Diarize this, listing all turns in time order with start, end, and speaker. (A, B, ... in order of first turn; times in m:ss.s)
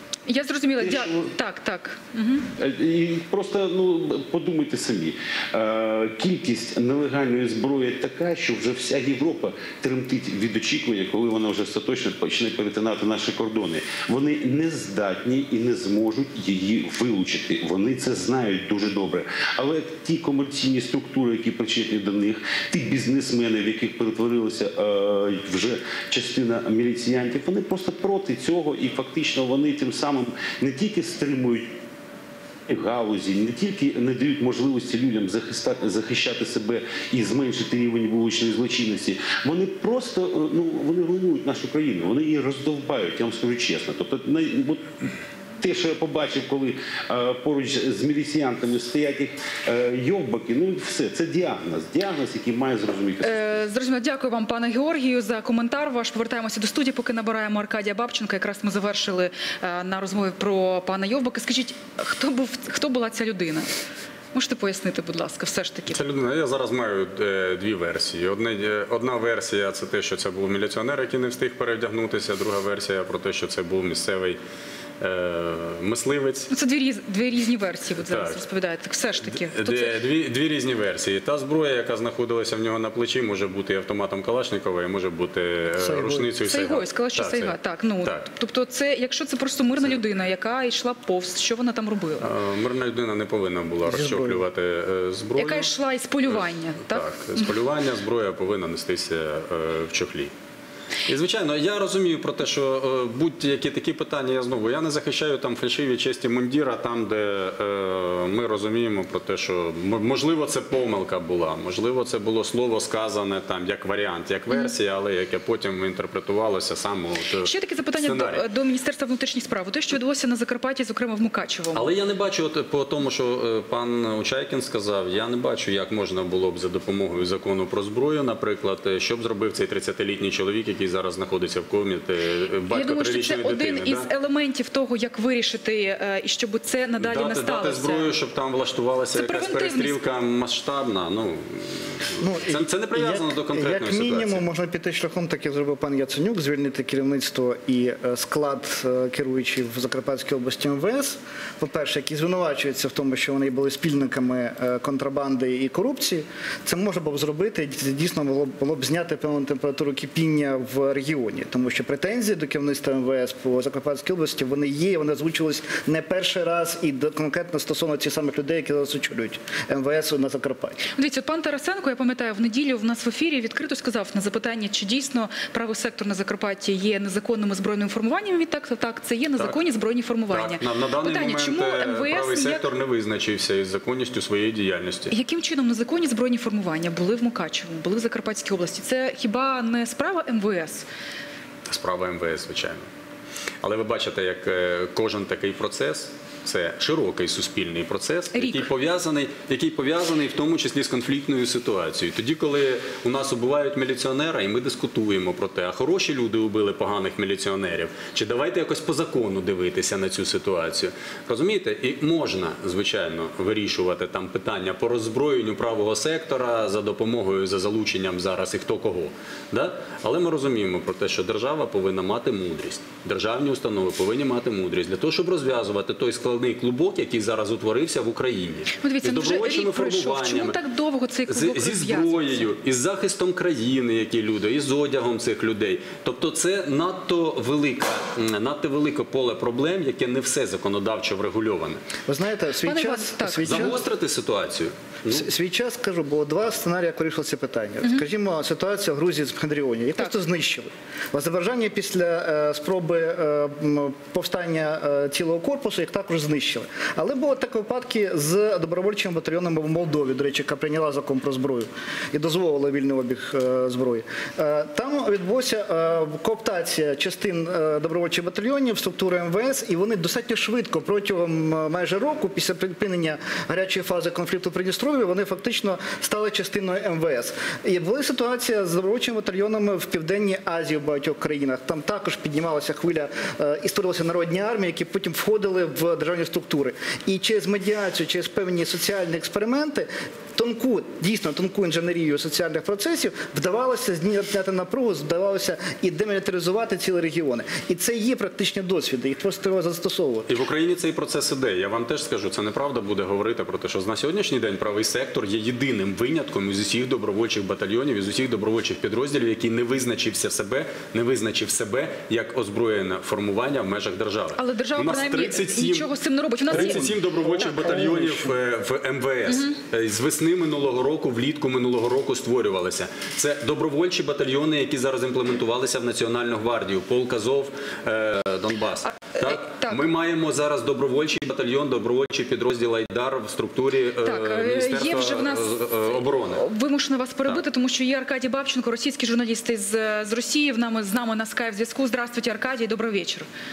0:00.3-0:02.5 A
0:00.8-0:01.3 B
0:02.6-0:31.7 B
0:32.7-0:53.6 B
0:53.2-1:03.7 A
1:04.3-1:06.0 A
1:05.9-1:14.4 C
1:15.0-1:16.5 C
1:16.5-1:20.0 A
1:18.0-1:18.4 C
1:19.3-1:28.2 C
1:25.8-1:26.3 D
1:26.4-1:32.3 A
1:32.2-1:35.7 C
1:33.8-1:34.4 D
1:35.4-1:37.5 A
1:36.4-1:40.3 C
1:41.1-1:58.4 C
1:57.4-2:01.9 A
2:01.7-2:14.1 C
2:12.7-2:18.1 A
2:17.0-2:24.4 C
2:19.1-2:20.0 A
2:22.2-2:50.8 D
2:51.0-3:02.6 A
3:00.3-3:05.1 C
3:05.1-3:10.8 A
3:11.7-3:12.8 C
3:13.6-3:50.6 C
3:18.3-3:18.6 A
3:48.8-3:52.5 A
3:51.3-4:01.8 C
4:02.1-4:03.8 D
4:02.6-4:03.7 A
4:03.4-4:05.2 C
4:05.1-5:00.3 D
5:00.3-5:15.9 C
5:14.4-5:16.9 A
5:16.5-5:36.4 C
5:16.5-5:18.3 D
5:19.3-5:19.6 A
5:29.1-5:29.8 A
5:34.0-5:43.3 A